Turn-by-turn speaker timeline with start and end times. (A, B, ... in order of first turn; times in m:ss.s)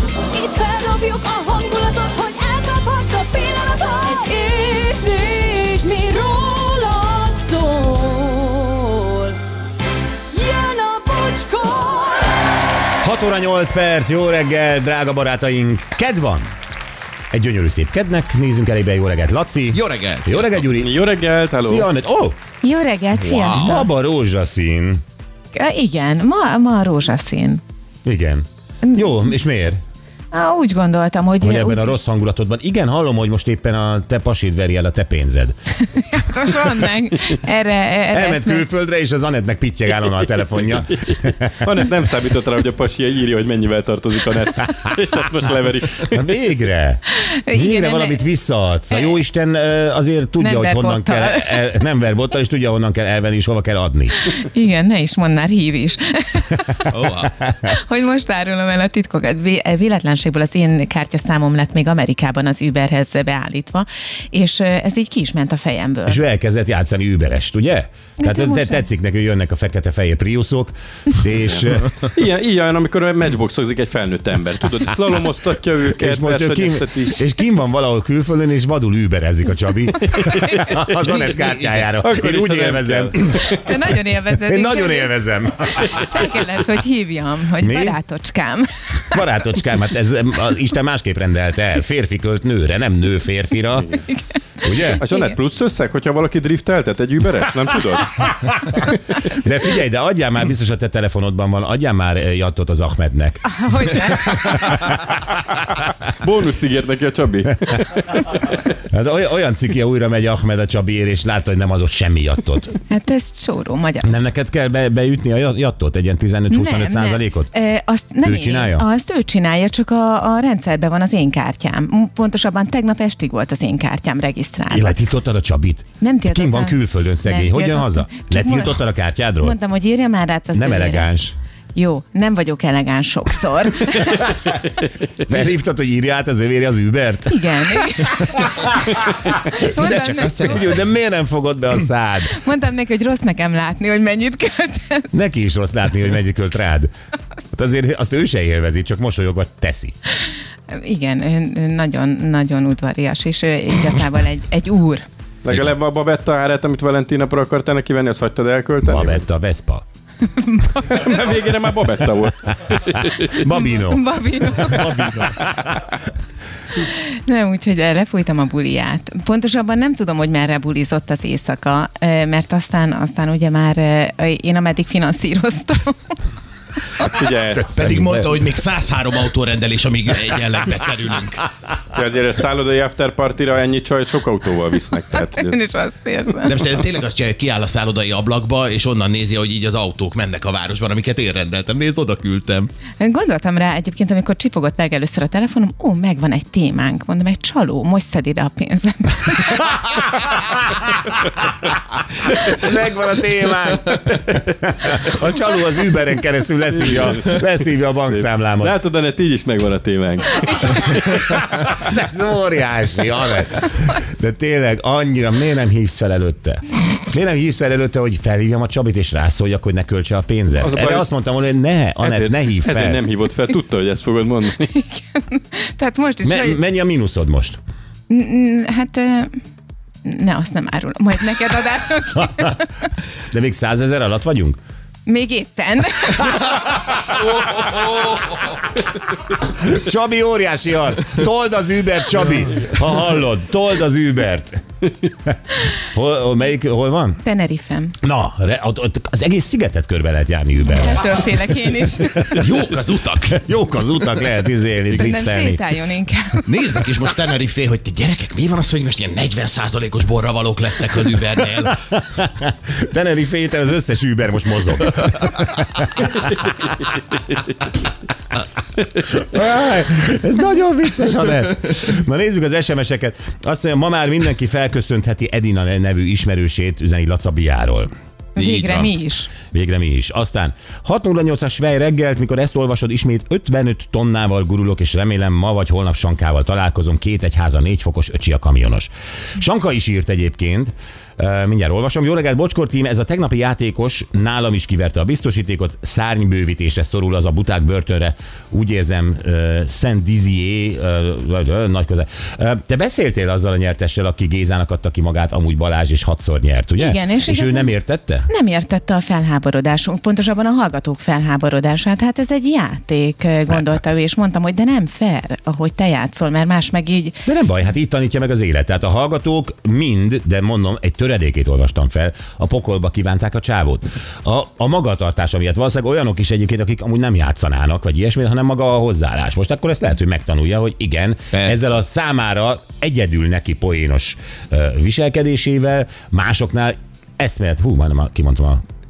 0:00.3-0:09.4 A
0:10.3-0:12.5 A
0:13.0-0:16.5 B
0:17.3-0:21.0 B
0:19.7-0:20.7 C
0:20.8-0:21.9 D
0:21.6-0:22.4 B
0:22.6-0:23.9 E
0:23.2-0:23.8 C
0:23.4-0:25.0 B
0:25.5-0:27.6 E
0:28.0-0:29.8 B
0:30.3-0:32.0 E
0:31.4-0:35.6 B
0:35.9-0:38.7 E
0:38.1-0:41.7 B
0:40.8-0:46.2 D
0:46.0-0:54.2 B
0:47.2-0:48.2 E
0:50.4-0:51.6 E
0:54.2-0:57.0 E
0:56.9-0:57.4 C
0:57.6-1:06.2 E
1:06.1-1:12.1 B
1:08.2-1:08.8 E
1:12.0-1:17.2 D
1:15.9-1:23.5 B
1:20.9-1:21.9 C
1:22.0-1:23.6 D
1:23.4-1:28.7 E
1:24.3-1:26.3 B
1:27.6-1:28.0 B
1:29.1-1:34.0 B
1:34.6-1:35.0 B
1:34.8-1:35.4 E
1:35.0-1:38.9 D
1:38.2-1:45.3 B
1:43.4-1:44.6 E
1:46.2-1:47.9 D
1:48.2-1:52.8 B
1:52.9-1:54.2 E
1:54.0-1:57.5 B
1:56.5-2:05.0 E
1:58.2-1:58.9 B
2:04.7-2:09.6 B
2:06.0-2:08.8 E
2:09.4-2:11.1 E
2:10.5-2:11.4 B
2:11.8-2:14.6 E
2:15.2-2:22.4 B
2:17.3-2:18.7 E
2:19.3-2:20.6 E
2:19.8-2:20.6 C
2:22.3-2:25.2 E
2:25.1-2:26.9 B
2:27.5-2:30.0 B
2:30.7-2:35.1 E
2:35.4-2:39.2 D
2:38.8-2:39.8 B
2:40.4-2:41.2 E
2:40.9-2:43.4 D
2:43.0-2:45.8 B
2:43.4-2:45.1 E
2:44.9-2:45.4 D
2:46.8-2:56.2 E
2:57.0-2:57.8 D
2:57.7-3:01.5 C
2:57.8-2:58.3 B
3:01.9-3:05.6 D
3:05.1-3:06.6 E
3:06.4-3:12.7 C
3:13.0-3:19.8 E
3:19.8-3:21.5 B
3:22.2-3:28.8 B
3:26.8-3:27.4 D
3:28.1-3:31.4 D
3:31.1-3:43.0 B
3:40.6-3:41.1 D
3:42.0-3:44.8 D
3:44.8-3:46.6 E
3:46.2-3:47.6 B
3:48.1-3:49.4 E
3:50.0-3:52.9 E
3:53.3-3:54.6 B
3:55.1-3:56.6 E
3:59.4-4:04.6 B
4:05.8-4:07.2 B
4:07.2-4:08.0 E
4:08.0-4:11.4 B
4:10.7-4:12.4 E
4:12.3-4:13.4 C
4:13.3-4:15.6 B
4:14.9-4:16.5 E
4:16.5-4:21.8 C
4:21.8-4:26.5 B
4:29.0-4:37.9 B
4:38.4-4:39.0 C
4:38.4-4:39.3 E
4:39.5-5:08.3 B
5:06.8-5:07.7 E
5:08.3-5:17.2 E
5:17.3-5:38.6 B
5:31.3-5:31.6 C